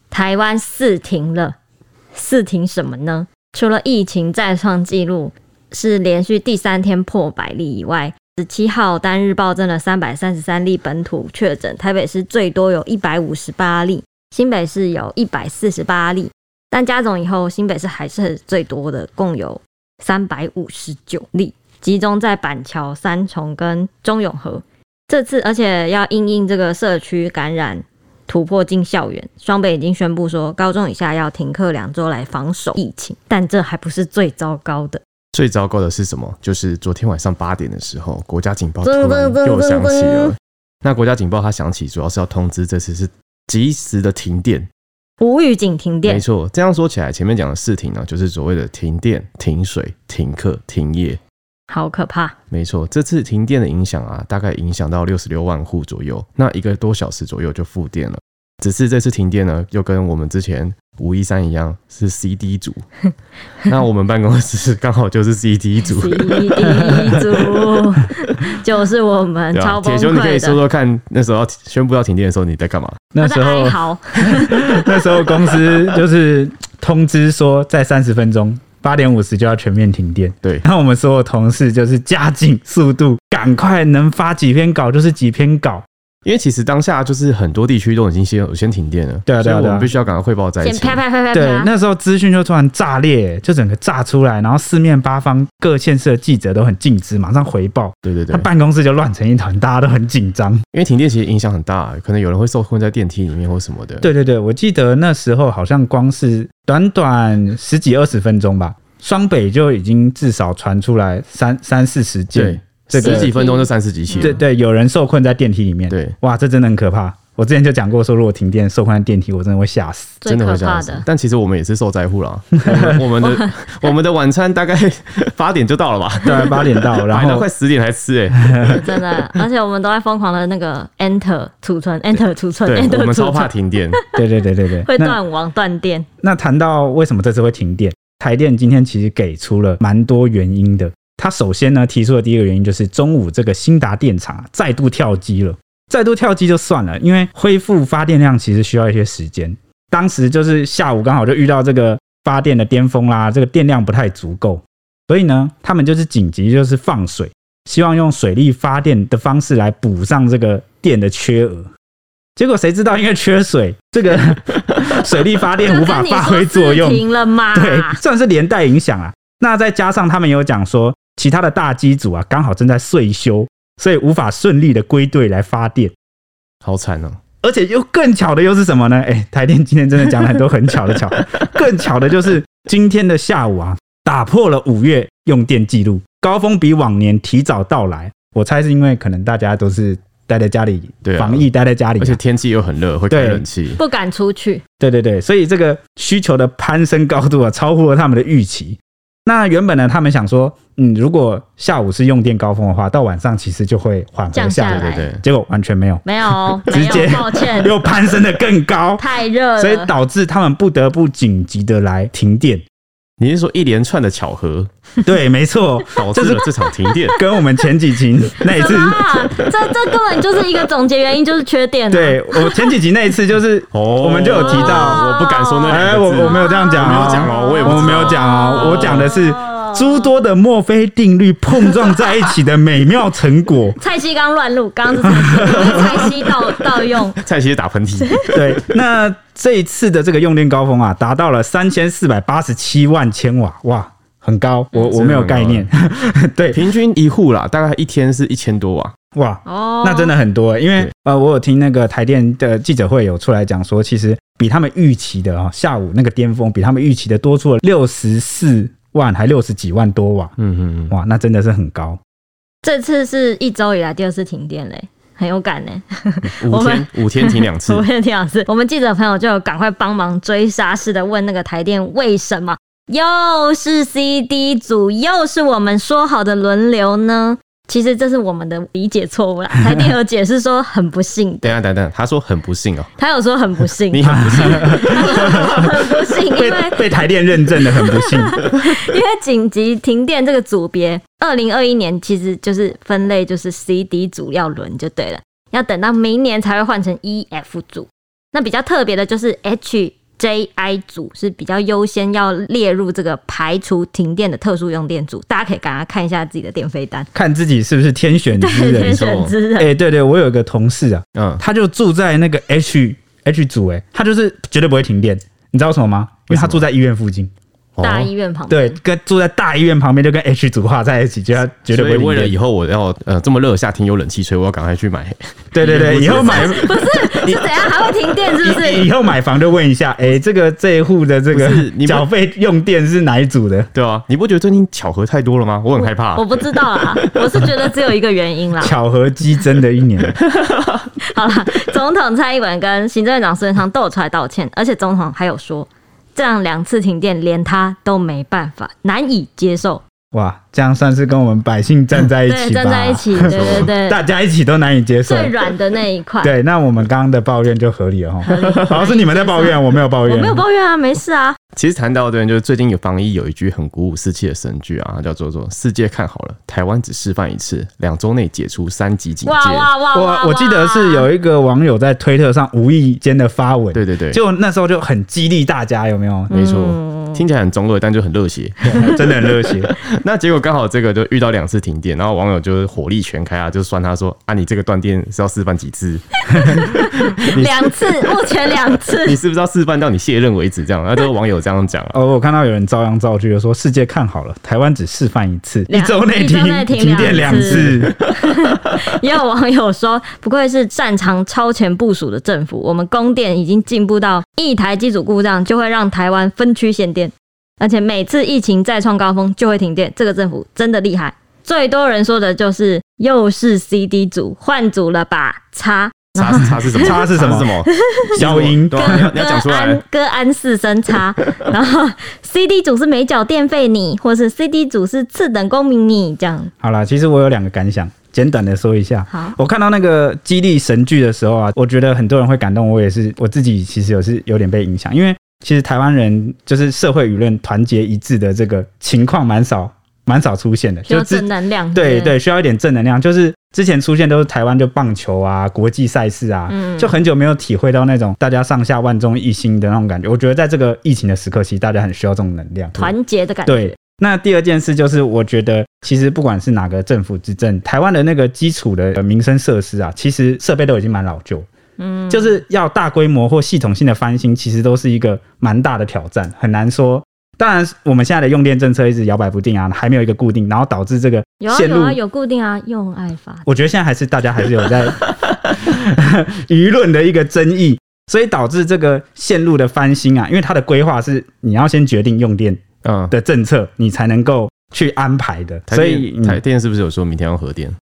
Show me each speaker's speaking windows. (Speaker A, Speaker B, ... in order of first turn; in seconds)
Speaker A: 0.1-1.5, 2.1-35.0, 38.8-40.3, 45.2-46.2, 51.7-52.3, 65.8-70.6, 73.2-74.9, 90.6-91.7, 112.9-114.4, 120.2-121.0, 123.2-123.9, 128.7-133.5, 134.8-136.1, 165.6-168.0, 193.8-194.6, 204.3-205.1, 206.0-207.8, 209.0-209.9, 218.5-222.8, 224.3-230.1, 233.8-237.2, 249.4-250.2, 262.6-281.6, 283.0-307.1, 308.3-309.7, 317.8-318.8, 326.1-328.9, 335.8-338.7, 341.1-349.8, 352.2-354.0, 355.0-356.3, 358.2-361.4, 369.2-371.1, 376.3-377.2, 386.3-389.2, 395.7-418.1, 418.7-426.5, 429.1-429.3, 440.9-442.1, 446.5-446.9, 452.8-453.7, 461.8-462.4, 471.4-473.4
Speaker B: 35.3-44.7, 46.0-51.2, 52.5-62.8, 63.6-67.5, 69.5-73.0, 86.2-91.0, 98.0-98.5, 100.7-104.1, 112.3-114.4, 120.2-128.8, 132.7-134.0, 176.6-177.2, 191.0-191.4, 192.0-193.8, 204.7-205.2, 213.2-214.7, 215.9-217.1, 223.7-229.1, 237.2-238.7, 244.9-245.7, 246.5-248.9, 260.4-260.9, 266.4-267.8, 281.4-282.9, 283.9-285.8, 308.8-309.3, 311.1-311.4, 316.3-316.6, 317.8-318.1, 321.7-327.8, 331.3-332.1, 333.7-337.5, 340.3-340.6, 353.2-353.7, 361.6-369.7, 373.7-374.2, 376.3-386.2, 389.0-392.0, 396.9-397.9, 416.1-419.8, 482.8-483.1, 485.7-487.8
Speaker C: 73.1-85.8, 89.2-89.9, 91.3-100.6, 104.0-113.3, 114.2-120.2, 122.6-122.9, 126.2-127.5, 128.5-128.8, 134.1-135.2, 136.2-161.7, 162.3-175.9, 177.4-192.2, 193.1-193.4, 194.8-206.0, 206.6-209.1, 209.6-212.6, 215.0-216.5, 217.1-219.1, 221.9-225.0, 225.7-233.8, 235.0-236.1, 238.3-246.6, 249.1-260.3, 260.9-262.0, 284.0-285.7, 286.3-288.4, 307.1-309.0, 309.6-317.3, 318.5-322.4, 325.5-326.6, 328.4-333.7, 338.6-340.2, 350.1-355.3, 356.2-360.4, 369.9-376.3, 378.6-379.7, 387.2-387.7, 391.9-397.9, 416.7-417.5, 418.1-419.1, 426.6-452.9, 453.4-461.5, 462.1-472.0, 473.4-486.4